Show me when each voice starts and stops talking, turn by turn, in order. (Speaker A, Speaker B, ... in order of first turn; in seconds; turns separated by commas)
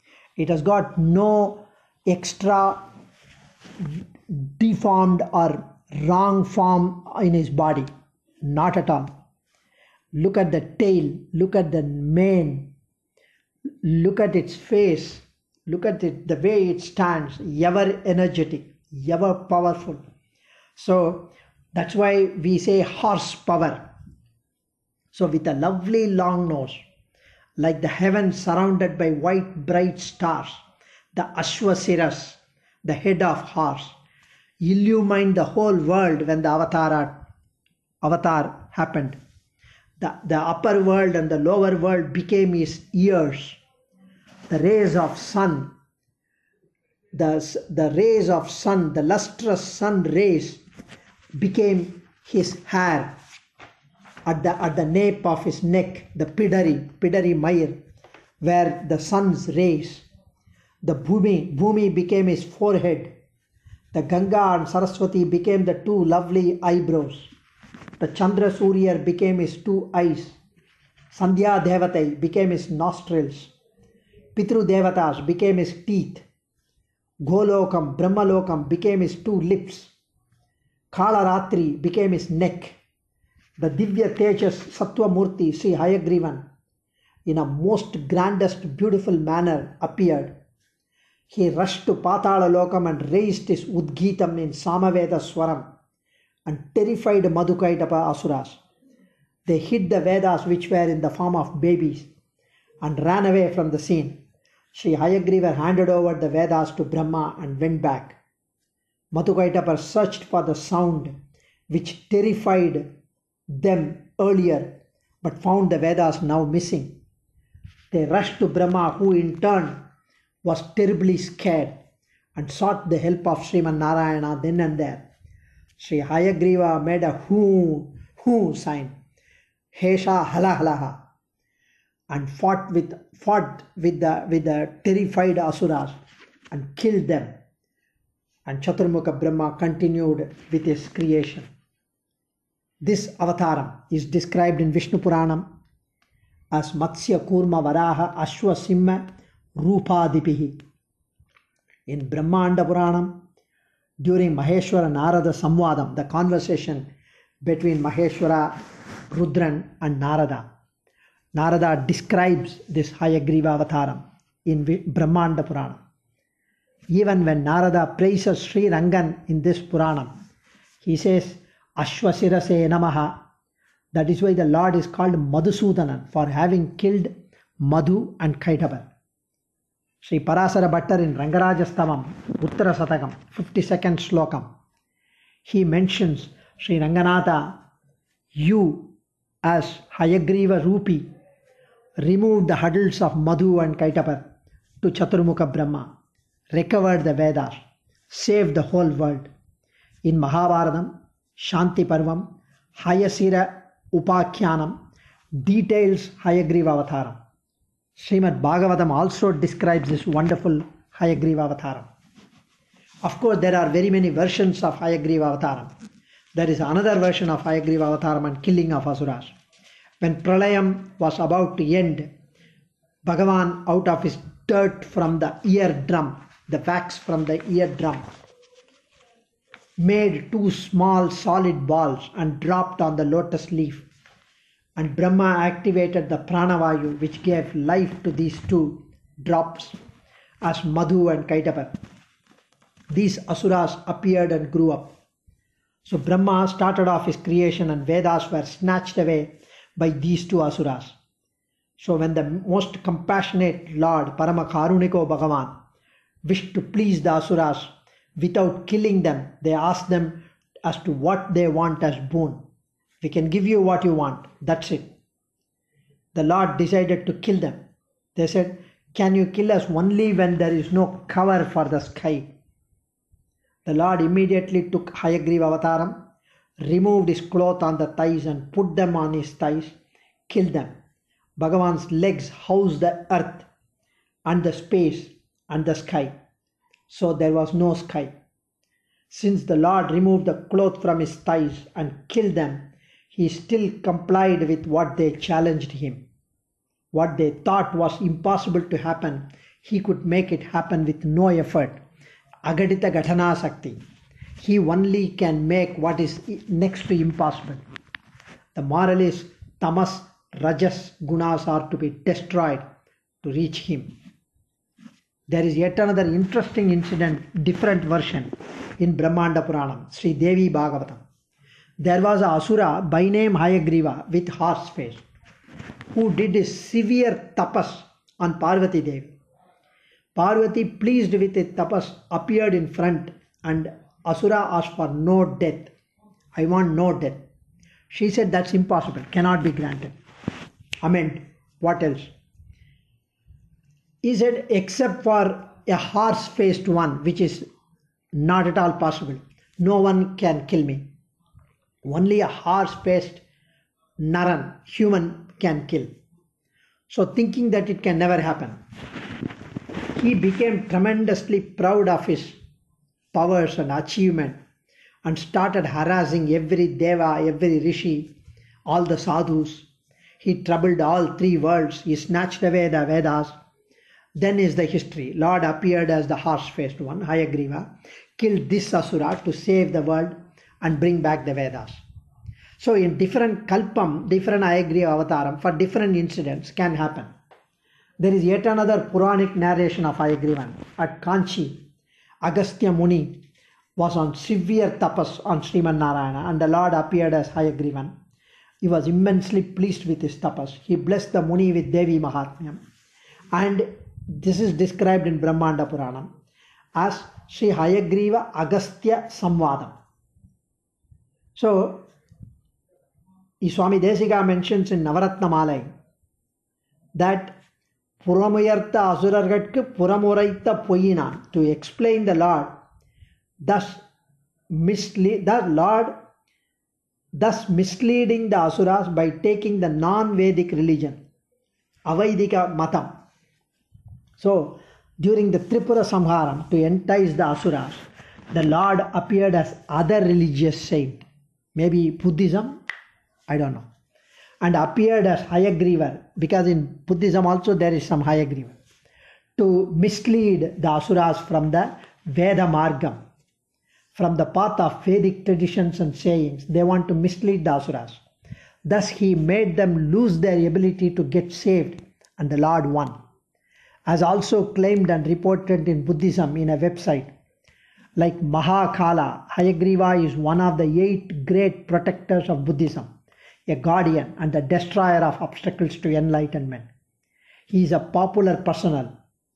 Speaker A: 0.4-2.8, Speaker A: 3.8-7.9, Speaker A: 8.4-9.1, Speaker A: 10.1-12.7, Speaker A: 13.8-20.0, Speaker A: 20.8-23.8, Speaker A: 25.1-26.8, Speaker A: 27.6-30.6, Speaker A: 31.1-34.0, Speaker A: 34.6-37.2, Speaker A: 38.0-39.2, Speaker A: 40.0-43.6, Speaker A: 44.5-45.7, Speaker A: 47.1-50.6, Speaker A: 51.4-53.1, Speaker A: 54.3-57.8, Speaker A: 58.4-60.1, Speaker A: 60.8-63.1, Speaker A: 63.9-67.3, Speaker A: 68.0-70.4, Speaker A: 71.1-73.5, Speaker A: 74.4-76.2, Speaker A: 77.2-79.9, Speaker A: 80.9-82.8, Speaker A: 83.6-86.4, Speaker A: 87.3-90.3, Speaker A: 91.3-95.7, Speaker A: 96.5-98.6, Speaker A: 99.5-102.1, Speaker A: 102.8-104.2, Speaker A: 104.7-108.2, Speaker A: 109.1-111.1, Speaker A: 111.7-112.9, Speaker A: 113.5-114.7, Speaker A: 115.2-116.9, Speaker A: 117.9-119.8, Speaker A: 120.4-121.8, Speaker A: 122.4-125.1, Speaker A: 125.8-128.9, Speaker A: 129.7-131.0, Speaker A: 132.1-136.0, Speaker A: 136.5-137.3, Speaker A: 138.5-141.5, Speaker A: 142.8-145.4, Speaker A: 146.5-149.1, Speaker A: 149.6-150.6, Speaker A: 151.9-153.1, Speaker A: 154.0-156.9, Speaker A: 157.4-158.6, Speaker A: 159.1-160.4, Speaker A: 161.3-165.8, Speaker A: 166.9-170.1, Speaker A: 170.8-173.2, Speaker A: 173.9-178.9, Speaker A: 180.0-184.5, Speaker A: 185.5-187.6, Speaker A: 188.4-188.9, Speaker A: 189.4-191.1, Speaker A: 192.0-194.2, Speaker A: 194.8-195.9, Speaker A: 196.5-199.3, Speaker A: 200.1-202.3, Speaker A: 202.8-204.8, Speaker A: 205.4-207.2, Speaker A: 208.0-211.9, Speaker A: 213.0-215.7, Speaker A: 216.3-219.3, Speaker A: 220.0-222.1, Speaker A: 223.0-228.1, Speaker A: 229.8-233.9, Speaker A: 234.8-239.8, Speaker A: 240.4-241.7, Speaker A: 242.9-244.9, Speaker A: 245.8-251.0, Speaker A: 251.8-255.5, Speaker A: 256.3-262.4, Speaker A: 263.0-264.9, Speaker A: 266.1-267.6, Speaker A: 268.2-272.3, Speaker A: 273.7-276.0, Speaker A: 276.6-279.8, Speaker A: 280.3-280.7, Speaker A: 281.4-283.5, Speaker A: 284.3-286.1, Speaker A: 286.9-288.1, Speaker A: 289.1-296.0, Speaker A: 296.9-301.8, Speaker A: 302.5-303.8, Speaker A: 304.4-307.6, Speaker A: 308.6-312.6, Speaker A: 313.2-313.9, Speaker A: 315.3-321.0, Speaker A: 321.8-325.0, Speaker A: 325.9-329.1, Speaker A: 330.2-335.7, Speaker A: 336.4-337.2, Speaker A: 337.9-339.9, Speaker A: 340.8-342.1, Speaker A: 344.0-347.5, Speaker A: 348.1-350.9, Speaker A: 351.9-353.2, Speaker A: 354.0-355.9, Speaker A: 356.9-358.6, Speaker A: 360.0-362.4, Speaker A: 363.1-364.4, Speaker A: 365.1-368.1, Speaker A: 368.7-369.7, Speaker A: 370.2-373.4, Speaker A: 374.2-377.7, Speaker A: 378.2-381.8, Speaker A: 382.6-387.1, Speaker A: 388.0-391.6, Speaker A: 392.2-393.2, Speaker A: 393.8-397.9, Speaker A: 398.6-402.6, Speaker A: 403.3-406.1, Speaker A: 406.8-409.7, Speaker A: 411.4-411.9, Speaker A: 413.4-415.7, Speaker A: 416.9-417.4, Speaker A: 418.0-422.6, Speaker A: 423.4-423.8, Speaker A: 424.5-425.9, Speaker A: 427.2-431.0, Speaker A: 431.9-432.9, Speaker A: 434.2-442.6, Speaker A: 443.3-443.6, Speaker A: 444.4-448.6, Speaker A: 449.4-453.0, Speaker A: 453.9-458.0, Speaker A: 458.7-462.9, Speaker A: 463.9-467.1, Speaker A: 468.0-472.9, Speaker A: 473.5-476.7, Speaker A: 477.5-478.9